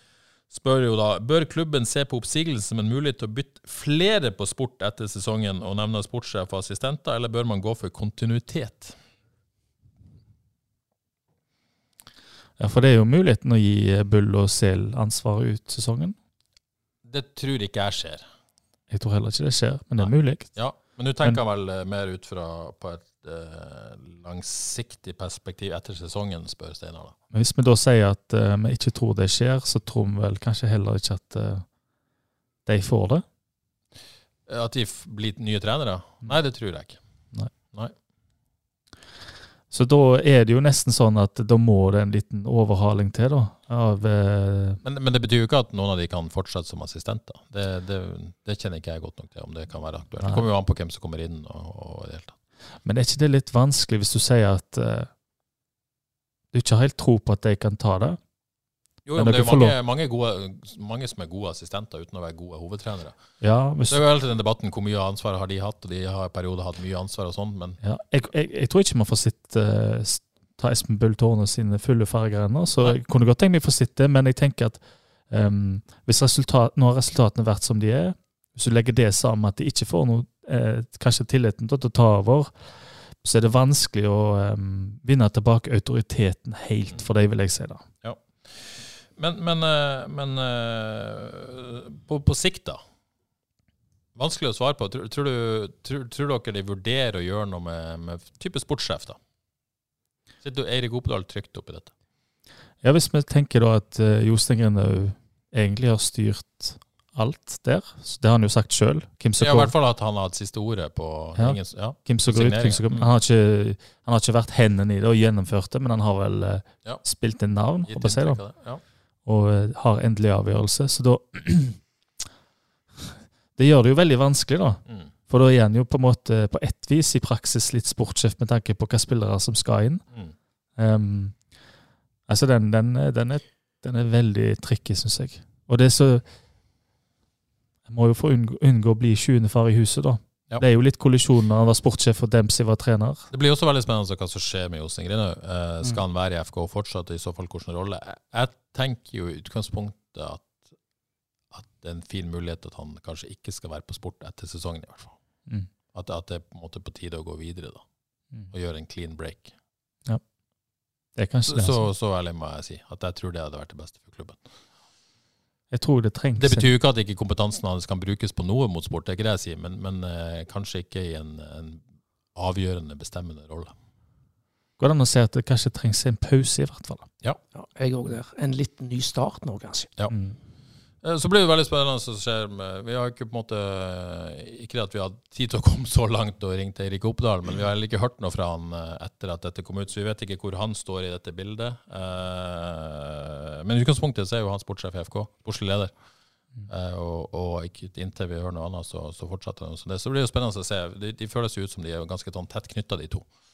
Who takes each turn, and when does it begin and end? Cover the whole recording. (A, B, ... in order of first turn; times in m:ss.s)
0:00.5-0:09.0 A
0:12.6-0:16.1 B
0:17.0-0:18.3 A
0:18.9-0:20.6 B
0:20.0-0:27.1 A
0:27.3-0:31.7 B
0:32.6-0:33.2 B
0:34.5-0:37.0 A
0:39.7-0:44.8 B
0:44.8-0:52.4 A
0:52.8-0:55.1 B
0:56.5-0:58.2 B
0:59.0-1:03.2 A
0:59.2-0:59.8 B
1:03.4-1:04.0 B
1:03.8-1:07.8 A
1:07.8-1:22.5 B
1:23.2-1:27.8 B
1:28.0-1:32.8 A
1:34.2-1:39.2 A
1:40.4-1:41.9 A
1:42.8-1:49.7 B
1:49.4-1:53.1 A
1:51.4-1:58.4 B
1:57.8-1:58.8 A
1:59.2-2:01.8 B
2:03.6-2:10.0 B
2:10.8-2:11.4 B
2:12.3-2:16.2 B
2:17.9-2:23.3 B
2:23.3-2:30.7 A
2:31.5-2:35.2 A
2:35.9-2:37.8 A
2:38.5-2:39.5 A
2:41.2-2:41.9 B
2:41.5-2:44.4 A
2:45.7-2:46.7 B
2:46.4-2:51.8 A
2:52.3-2:53.7 A
2:54.8-2:57.1 B
2:57.5-2:59.9 C
3:00.1-3:00.4 B
3:01.0-3:15.9 A
3:16.7-3:23.3 A